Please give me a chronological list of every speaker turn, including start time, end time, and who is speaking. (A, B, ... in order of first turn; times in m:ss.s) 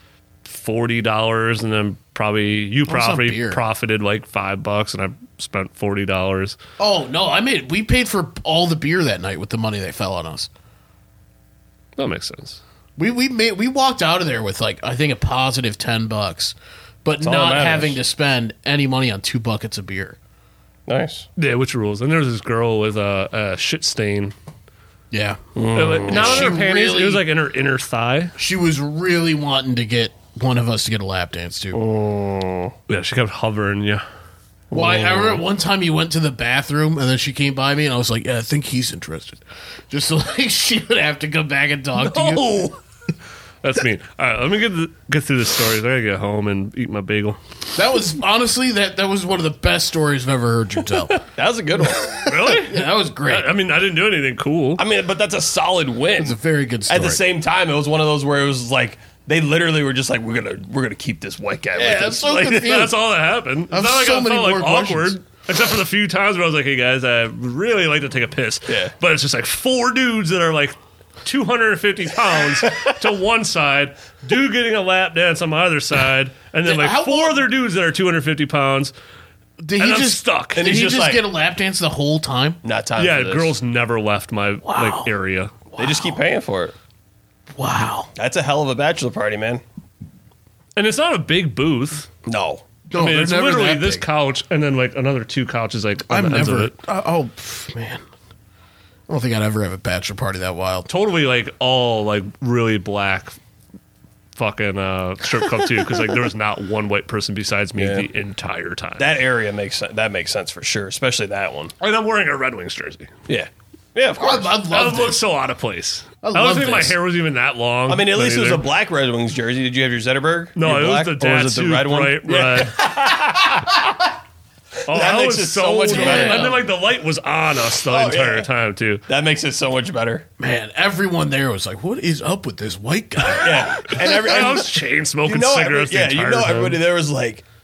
0:00.5-0:06.6 A
0:02.9-0:03.6 B
0:06.8-0:10.5 B
0:12.0-0:12.6 A
0:13.0-0:20.2 B
0:17.2-0:18.0 C
0:20.9-0:21.3 C
0:21.4-0:24.3 A
0:25.1-0:25.4 B
0:25.6-0:26.5 C
0:25.7-0:28.3 A
0:26.1-0:27.3 B
0:28.4-0:31.8 B
0:31.7-0:32.7 C
0:32.9-0:34.0 A
0:34.7-0:42.6 B
0:34.8-0:35.4 A
0:42.0-0:42.8 A
0:43.6-0:47.4 A
0:47.8-0:51.2 B
0:51.3-0:52.2 C
0:52.1-0:53.6 B
0:52.1-0:54.8 A
0:54.8-1:02.8 C
0:56.2-0:57.2 B
1:01.8-1:03.0 B
1:02.5-1:18.9 A
1:03.7-1:05.2 B
1:08.7-1:08.9 C
1:12.6-1:12.9 C
1:16.6-1:17.5 B
1:19.6-1:22.6 B
1:19.8-1:20.9 A
1:20.5-1:21.2 C
1:22.6-1:23.6 C
1:23.0-1:25.6 A
1:24.6-1:25.1 B
1:25.7-1:26.2 B
1:25.8-1:26.8 C
1:27.6-1:28.1 B
1:28.2-1:29.6 C
1:30.8-1:32.1 A
1:32.2-1:32.7 C
1:32.9-1:34.1 B
1:33.0-1:36.8 A
1:36.1-1:38.0 B
1:39.1-1:40.9 B
1:40.9-1:43.4 A
1:44.4-1:49.1 A
1:47.8-1:48.1 C
1:49.0-1:51.7 C
1:51.8-1:53.1 A
1:53.3-1:54.6 C
1:54.2-1:55.2 B
1:54.7-1:58.7 A
1:56.2-1:57.0 B
1:57.9-2:02.9 C
2:00.6-2:03.2 A
2:04.9-2:09.0 A
2:04.9-2:06.6 C
2:05.9-2:06.6 B
2:07.8-2:08.5 C
2:09.1-2:10.3 C
2:10.4-2:14.1 B
2:13.3-2:16.8 A
2:13.4-2:17.4 C